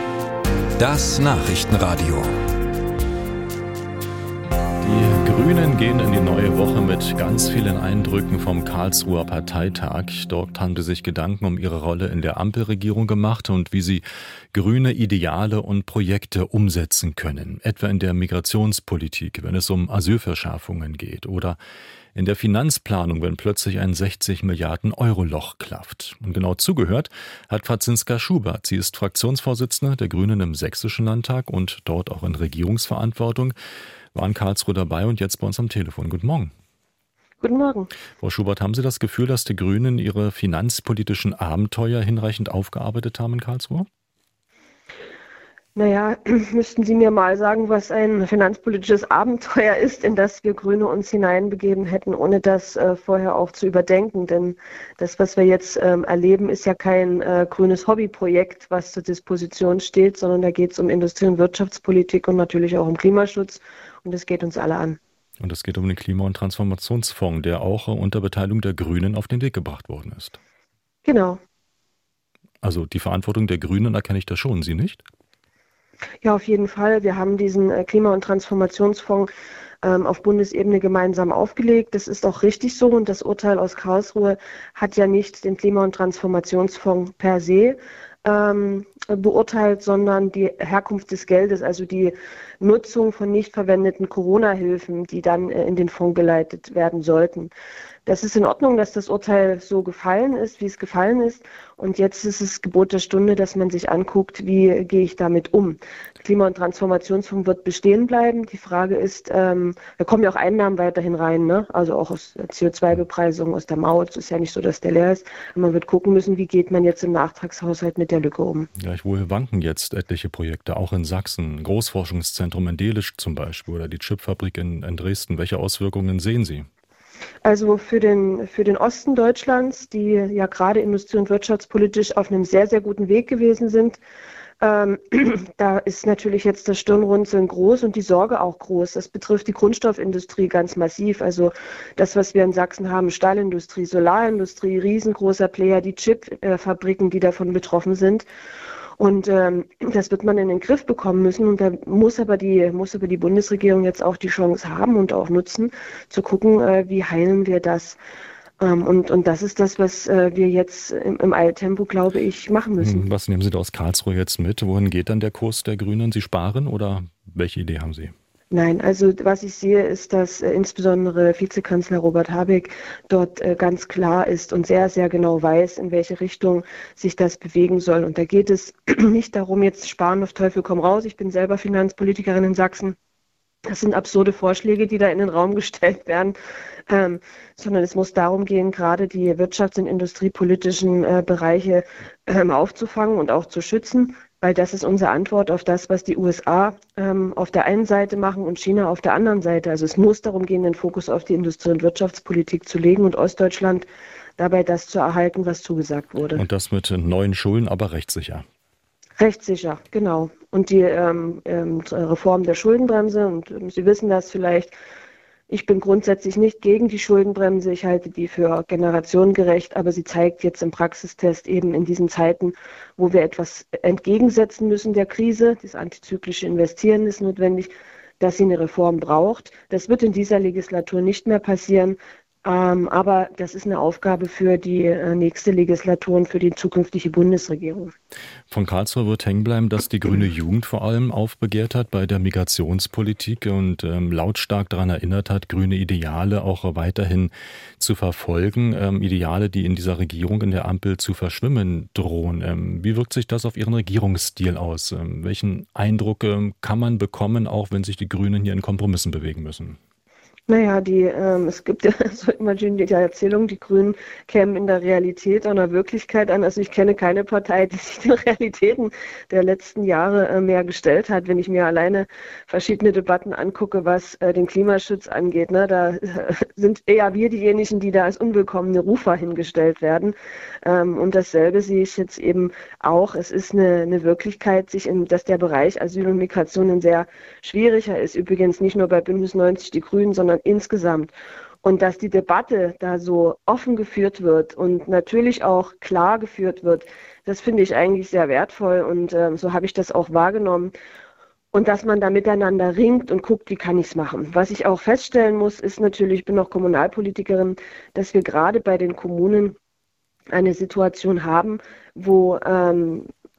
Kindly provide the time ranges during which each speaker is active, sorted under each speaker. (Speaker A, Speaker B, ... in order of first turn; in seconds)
Speaker A: 0.8-2.3, 4.8-21.6, 22.1-33.5, 34.1-36.5, 38.2-43.9, 65.4-70.4, 72.6-75.0, 118.8-126.7, 162.8-168.1, 206.3-208.4, 238.5-259.8
Speaker B: 37.4-37.9, 45.8-65.0, 71.0-71.4, 76.2-79.3, 79.8-97.5, 98.1-118.7, 127.4-134.0, 134.6-148.3, 149.0-158.0, 158.6-163.1, 168.5-183.0, 183.7-186.3, 186.9-203.9, 204.4-206.4, 209.2-214.7, 215.5-237.9, 260.5-300.7, 301.5-309.6, 310.3-313.1